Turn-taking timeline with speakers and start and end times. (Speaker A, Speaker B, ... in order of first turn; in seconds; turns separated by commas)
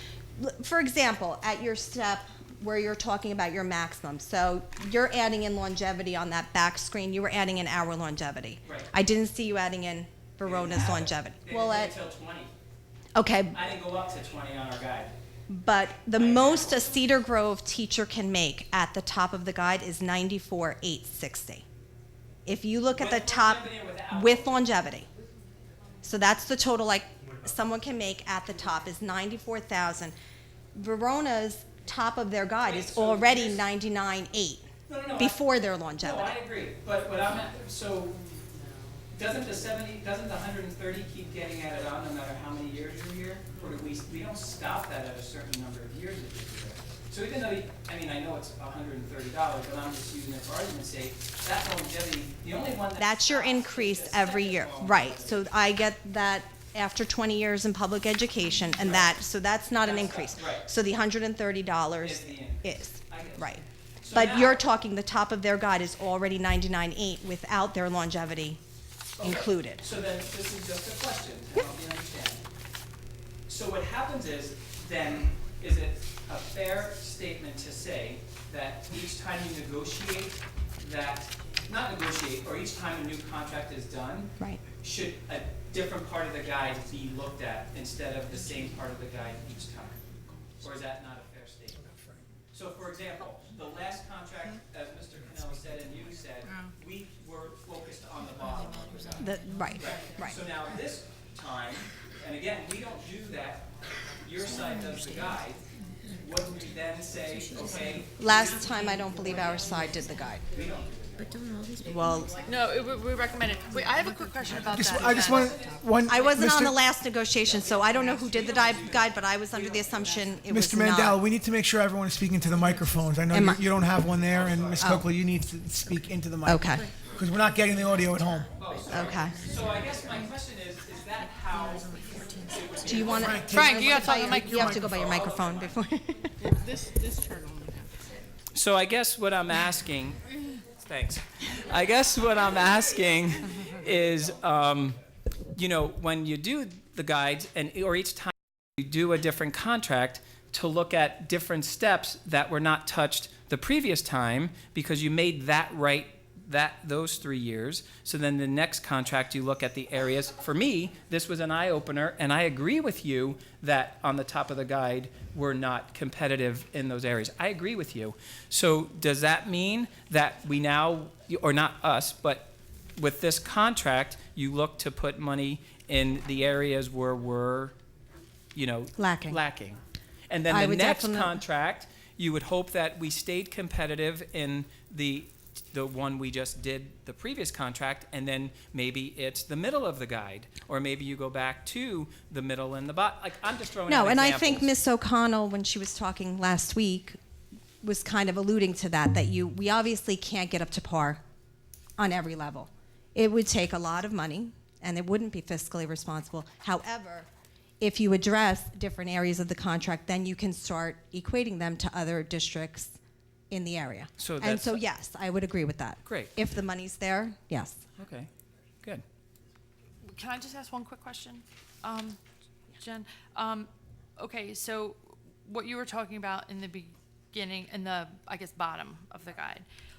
Speaker A: 0.4-11.9, Speaker B: 10.4-12.5, Speaker A: 13.2-13.6, Speaker B: 13.5-15.1, Speaker A: 15.5-21.6, Speaker B: 16.1-16.9, Speaker A: 22.5-25.1, Speaker B: 22.9-24.6, Speaker A: 26.0-30.1, Speaker A: 30.7-36.4, Speaker B: 32.6-33.6, Speaker B: 34.9-35.4, Speaker B: 36.0-38.2, Speaker B: 39.1-55.4, Speaker A: 53.0-68.6, Speaker B: 58.8-59.1, Speaker B: 59.8-60.7, Speaker B: 62.0-64.6, Speaker A: 69.2-69.8, Speaker B: 69.2-72.4, Speaker B: 73.5-90.0, Speaker B: 90.6-91.8, Speaker B: 92.5-103.7, Speaker A: 99.2-100.4, Speaker B: 104.2-108.7, Speaker A: 108.2-110.5, Speaker B: 110.5-111.3, Speaker A: 111.8-112.4, Speaker C: 112.4-115.3, Speaker D: 114.7-116.7, Speaker B: 115.0-116.2, Speaker A: 116.1-121.2, Speaker B: 117.5-119.2, Speaker D: 120.5-128.5, Speaker A: 123.3-123.6, Speaker B: 124.3-124.9, Speaker A: 124.8-125.1, Speaker A: 126.5-126.9, Speaker B: 128.6-133.5, Speaker A: 128.9-129.4, Speaker A: 132.8-136.5, Speaker D: 133.0-135.0, Speaker C: 133.5-134.8, Speaker B: 134.8-135.8, Speaker B: 138.5-140.2, Speaker B: 140.8-145.0, Speaker B: 145.6-177.7, Speaker B: 178.6-179.8, Speaker A: 179.0-179.4, Speaker B: 180.3-194.7, Speaker A: 180.5-181.4, Speaker A: 193.9-197.2, Speaker A: 197.8-201.2, Speaker A: 202.0-207.3, Speaker A: 207.8-213.0, Speaker A: 213.5-217.8, Speaker B: 214.2-214.8, Speaker B: 216.0-216.3, Speaker B: 218.0-218.3, Speaker C: 220.0-222.2, Speaker C: 222.7-229.7